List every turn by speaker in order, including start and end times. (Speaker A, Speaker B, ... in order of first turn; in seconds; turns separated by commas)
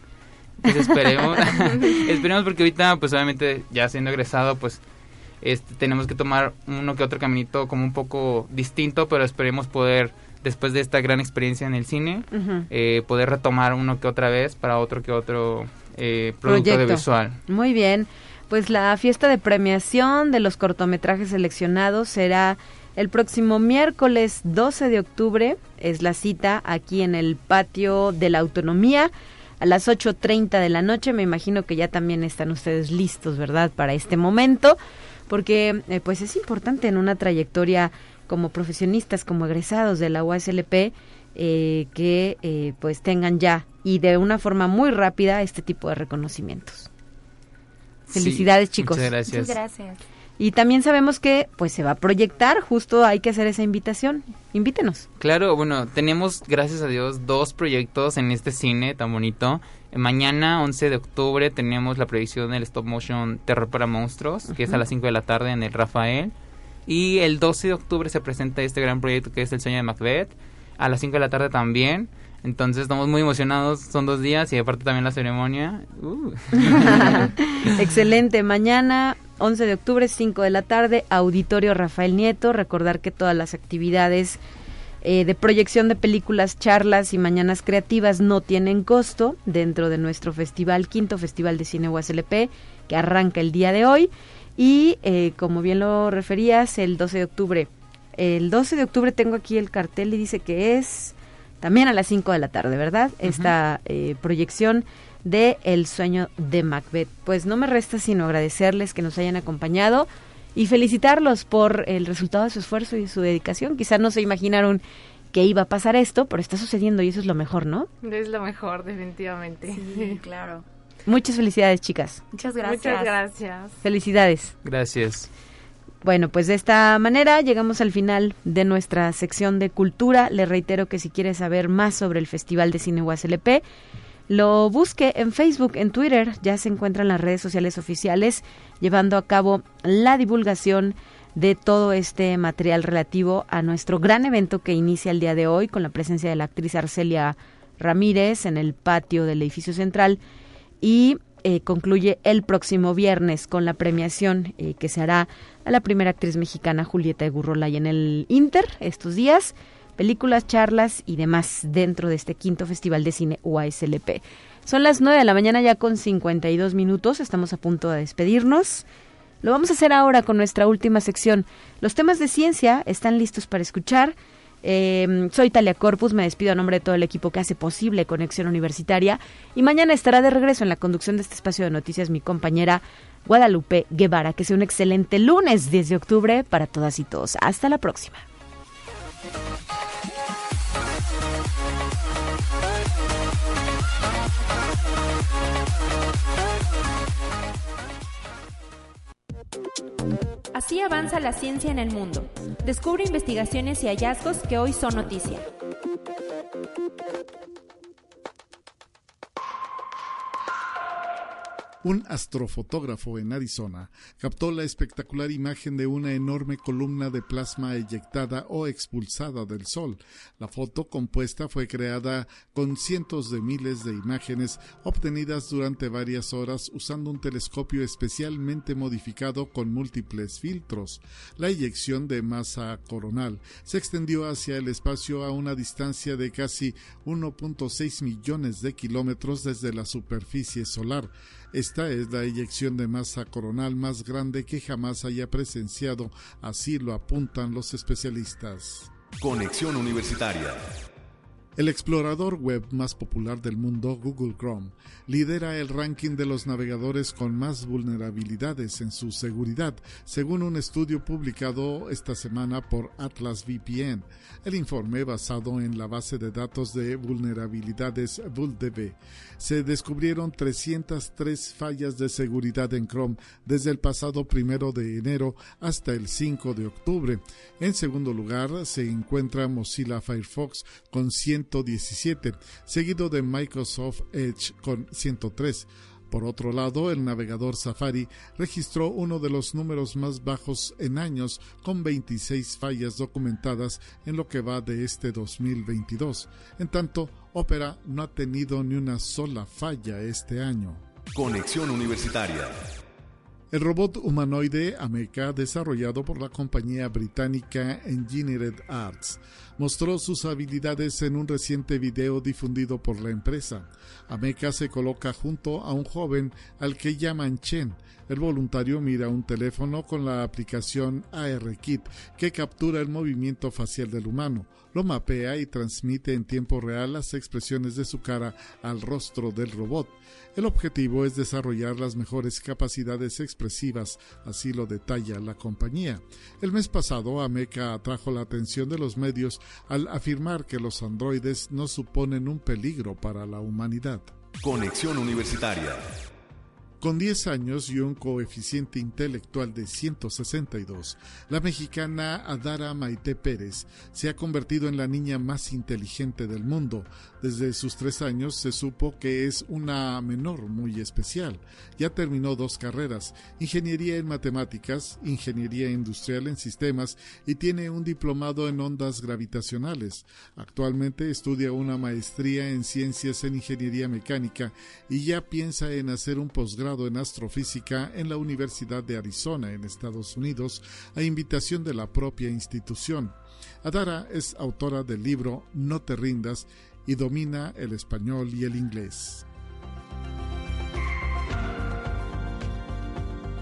Speaker A: 0.6-4.8, Speaker B: 0.7-1.6, Speaker A: 5.4-17.4, Speaker B: 12.3-12.7, Speaker B: 16.4-34.8, Speaker B: 35.3-46.9, Speaker A: 48.1-49.6, Speaker B: 48.1-49.1, Speaker C: 49.3-50.0, Speaker B: 50.4-55.1, Speaker A: 55.2-66.3, Speaker A: 66.9-77.8, Speaker B: 76.7-84.4, Speaker B: 85.0-117.9, Speaker A: 103.3-103.5, Speaker D: 118.0-120.2, Speaker C: 119.7-120.6, Speaker B: 121.1-122.2, Speaker C: 122.3-123.2, Speaker D: 122.6-123.8, Speaker B: 123.8-124.5, Speaker A: 124.6-125.3, Speaker B: 126.0-133.6, Speaker B: 134.3-150.2, Speaker B: 150.8-168.9, Speaker B: 169.4-188.2, Speaker E: 200.5-205.5, Speaker F: 211.8-248.9, Speaker G: 249.2-250.6, Speaker F: 251.6-300.8, Speaker G: 301.1-302.6, Speaker F: 303.5-344.1, Speaker G: 344.4-345.9, Speaker F: 346.8-389.2